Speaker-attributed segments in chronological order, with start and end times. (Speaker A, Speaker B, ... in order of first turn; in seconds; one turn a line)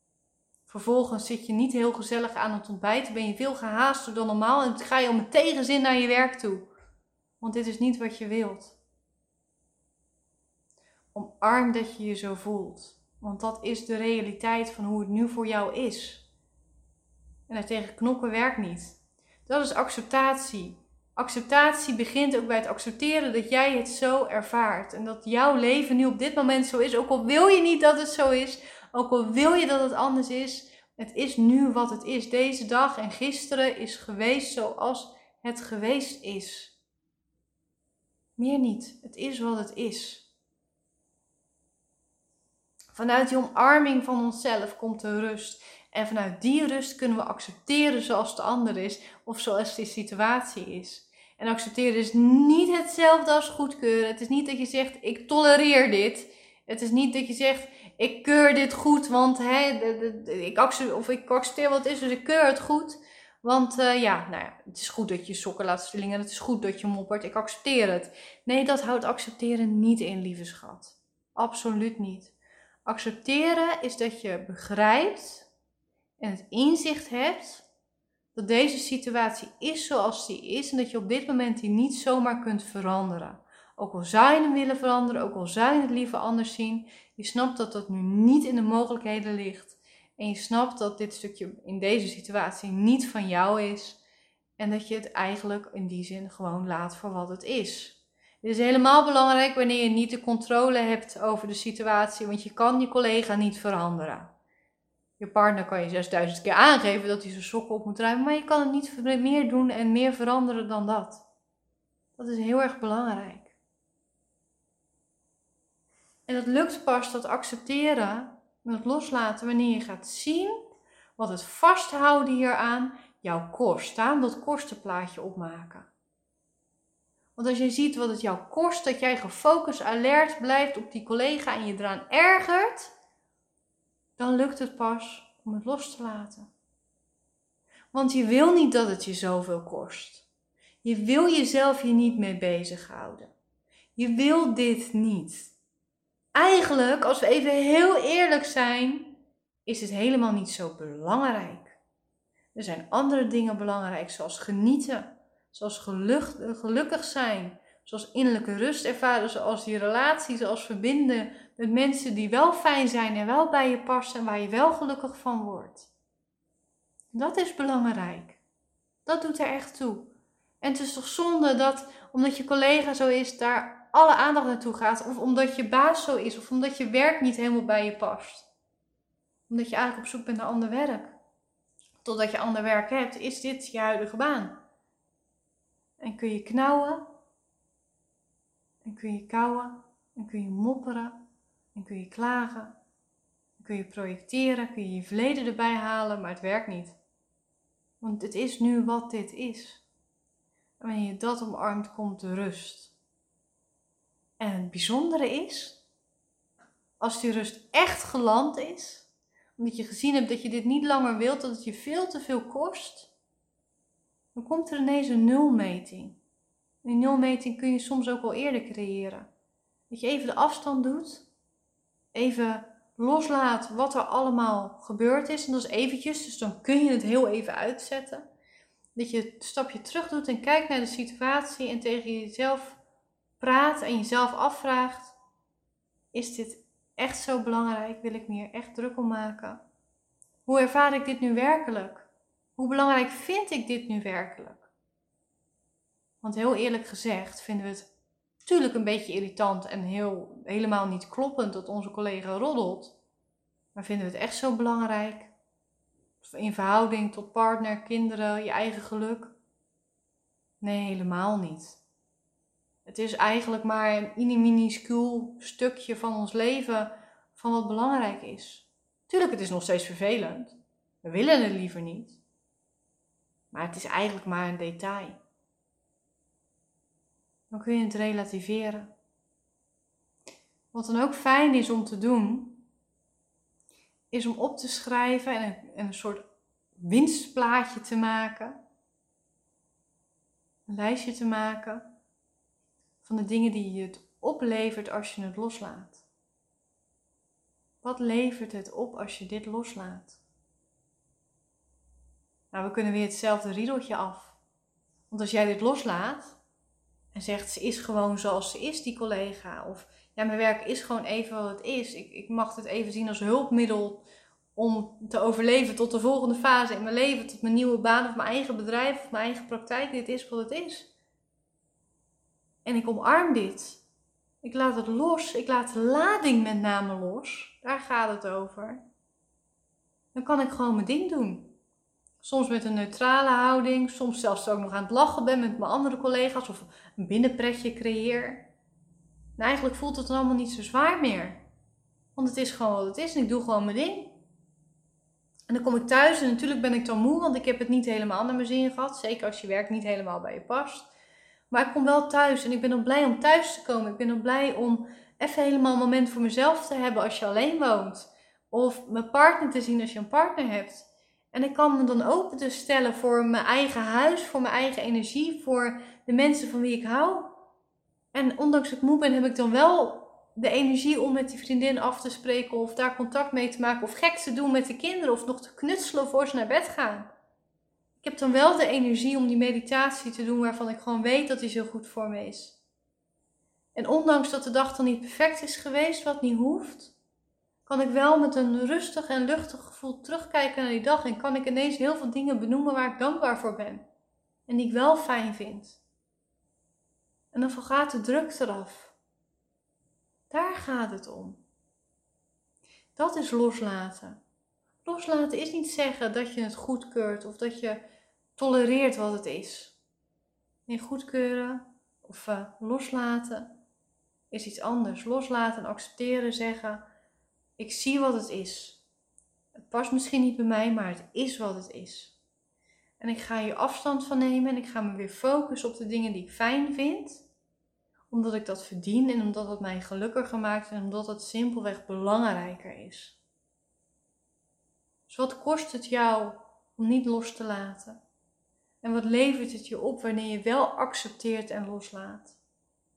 Speaker A: 0.7-6.7
Speaker A: 7.4-8.8
Speaker A: 11.1-16.2
Speaker A: 17.5-36.8
Speaker A: 38.4-40.2
Speaker A: 42.9-75.5
Speaker A: 76.2-77.7
Speaker A: 78.3-94.0
Speaker A: 94.6-104.3
Speaker A: 105.2-111.2
Speaker A: 112.2-113.6
Speaker A: 116.3-125.9
Speaker A: 127.3-132.9
Speaker A: 134.2-136.5
Speaker A: 137.9-140.2
Speaker A: 140.8-143.3
Speaker A: 143.9-145.5
Speaker A: 146.3-151.8
Speaker A: 152.5-165.9
Speaker A: 167.1-168.4
Speaker A: 169.1-178.5
Speaker A: 179.5-181.2
Speaker A: 182.0-184.6
Speaker A: 186.0-187.1
Speaker A: 188.8-191.2
Speaker A: 191.7-192.7
Speaker A: 193.6-197.0
Speaker A: 198.0-199.8
Speaker A: 200.8-202.9
Speaker A: 204.4-205.8
Speaker A: 207.0-213.1
Speaker A: 214.3-216.2
Speaker A: 216.8-219.3
Speaker A: 219.9-221.2
Speaker A: 222.1-228.2
Speaker A: 228.9-232.8
Speaker A: 233.4-235.2
Speaker A: 236.1-239.6
Speaker A: 240.4-244.7
Speaker A: 246.2-247.9
Speaker A: 248.4-252.9
Speaker A: 253.7-255.3
Speaker A: 256.2-259.3
Speaker A: 260.6-261.8
Speaker A: 262.8-272.2
Speaker A: 273.5-275.2
Speaker A: 277.5-278.9
Speaker A: 280.7-282.6
Speaker A: 284.1-286.2
Speaker A: 286.8-288.6
Speaker A: 290.7-291.9
Speaker A: 293.0-296.0
Speaker A: 297.8-300.2
Speaker A: 302.5-304.4
Speaker A: 305.1-306.4
Speaker A: 307.1-314.0
Speaker A: 314.6-320.9
Speaker A: 322.6-323.8
Speaker A: 324.4-328.8
Speaker A: 330.1-331.5
Speaker A: 332.2-338.5
Speaker A: 339.4-341.4
Speaker A: 342.1-344.2
Speaker A: 345.5-350.9
Speaker A: 351.5-367.4
Speaker A: 368.1-377.1
Speaker A: 378.0-382.6
Speaker A: 383.7-386.9
Speaker A: 387.6-393.8
Speaker A: 394.5-395.8
Speaker A: 397.3-398.9
Speaker A: 400.3-401.4
Speaker A: 402.9-404.2
Speaker A: 404.8-407.8
Speaker A: 408.4-409.8
Speaker A: 410.7-413.5
Speaker A: 414.3-416.8
Speaker A: 417.6-418.8
Speaker A: 419.6-422.1
Speaker A: 423.0-427.2
Speaker A: 428.1-433.2
Speaker A: 435.1-438.0
Speaker A: 438.8-442.4